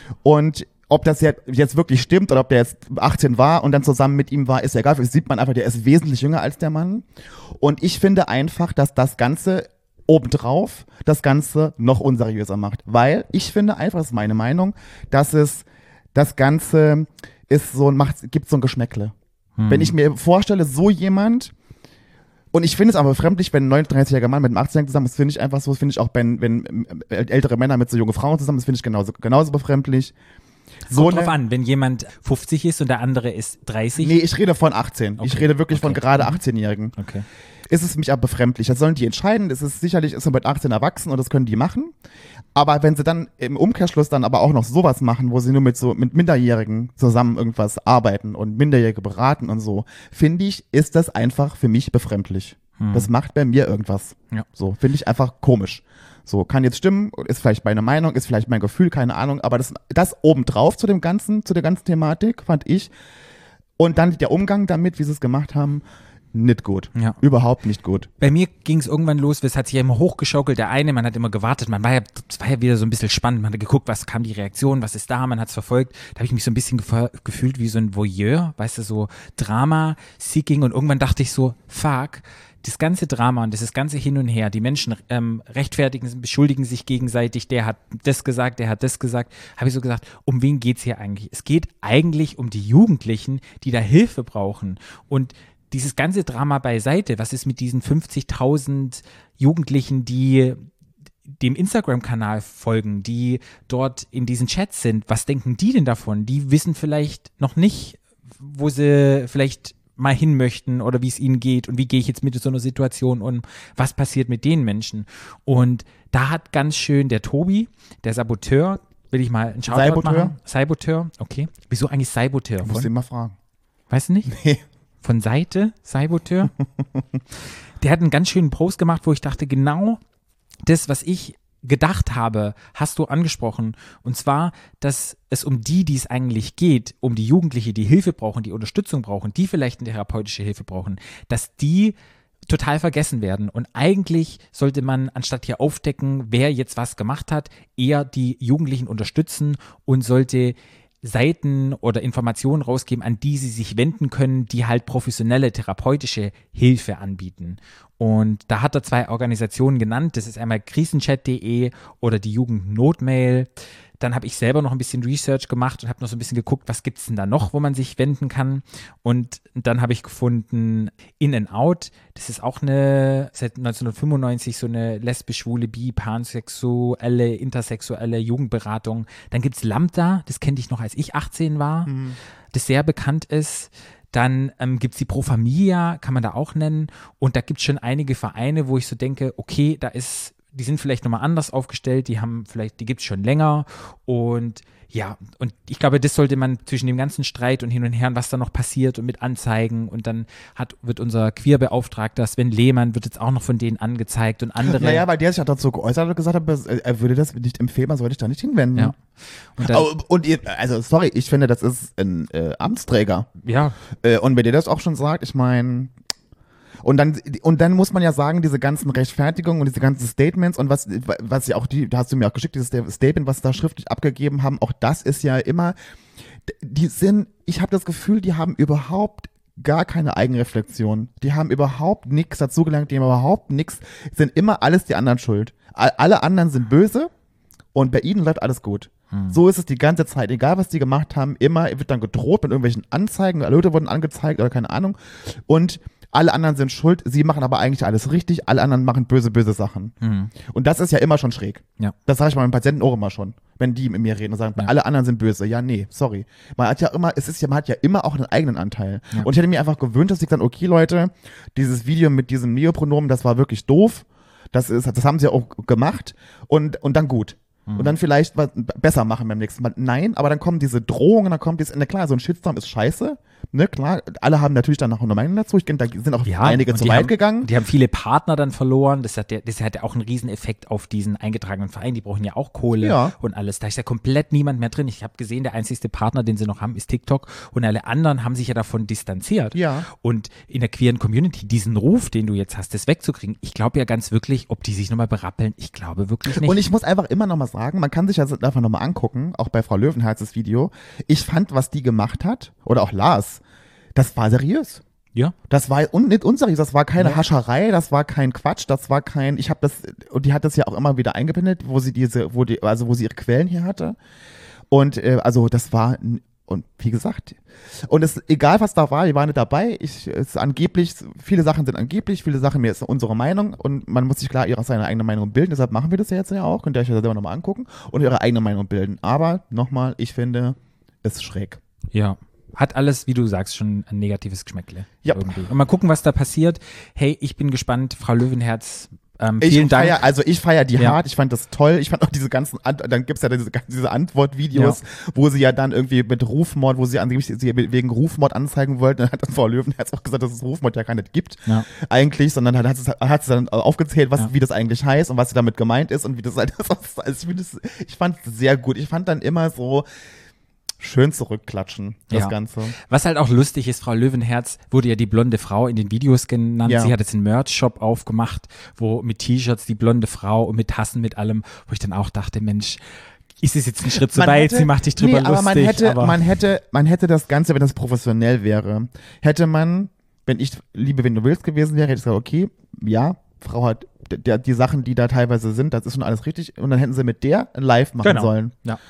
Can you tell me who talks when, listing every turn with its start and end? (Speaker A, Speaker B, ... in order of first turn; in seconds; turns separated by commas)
Speaker A: 0.2-19.1, Speaker B: 19.6-19.9, Speaker A: 19.7-21.5, Speaker A: 22.5-30.1, Speaker B: 30.9-34.1, Speaker A: 30.9-31.3, Speaker A: 34.0-36.9, Speaker B: 35.2-36.4, Speaker B: 37.0-37.2, Speaker A: 37.7-41.9, Speaker A: 42.5-62.9, Speaker B: 52.8-53.1, Speaker A: 63.8-68.1, Speaker B: 68.2-100.7, Speaker B: 101.3-122.9, Speaker A: 119.7-120.3, Speaker A: 122.6-123.3, Speaker B: 123.9-124.3, Speaker A: 124.3-124.6, Speaker B: 125.0-126.5, Speaker B: 127.8-130.0, Speaker B: 130.7-141.9, Speaker B: 142.5-181.9, Speaker A: 181.8-182.2, Speaker B: 182.5-205.0, Speaker A: 204.6-208.9, Speaker B: 208.8-209.9, Speaker A: 209.6-213.3, Speaker B: 213.4-213.8, Speaker A: 214.0-215.9, Speaker A: 216.8-225.8, Speaker A: 226.4-237.1, Speaker A: 237.7-277.5, Speaker B: 239.1-239.4, Speaker B: 250.0-250.3, Speaker B: 267.7-267.9, Speaker B: 276.2-296.6, Speaker A: 282.8-283.1, Speaker A: 289.5-289.9, Speaker A: 296.3-303.4, Speaker A: 303.9-304.8, Speaker A: 305.5-314.0, Speaker A: 314.7-331.6, Speaker B: 331.9-340.0, Speaker A: 335.0-335.5, Speaker A: 339.4-359.9, Speaker B: 344.5-344.8, Speaker A: 360.8-362.7, Speaker B: 362.1-372.8, Speaker A: 366.6-366.9, Speaker B: 373.4-376.2, Speaker A: 373.9-388.5, Speaker B: 388.0-388.8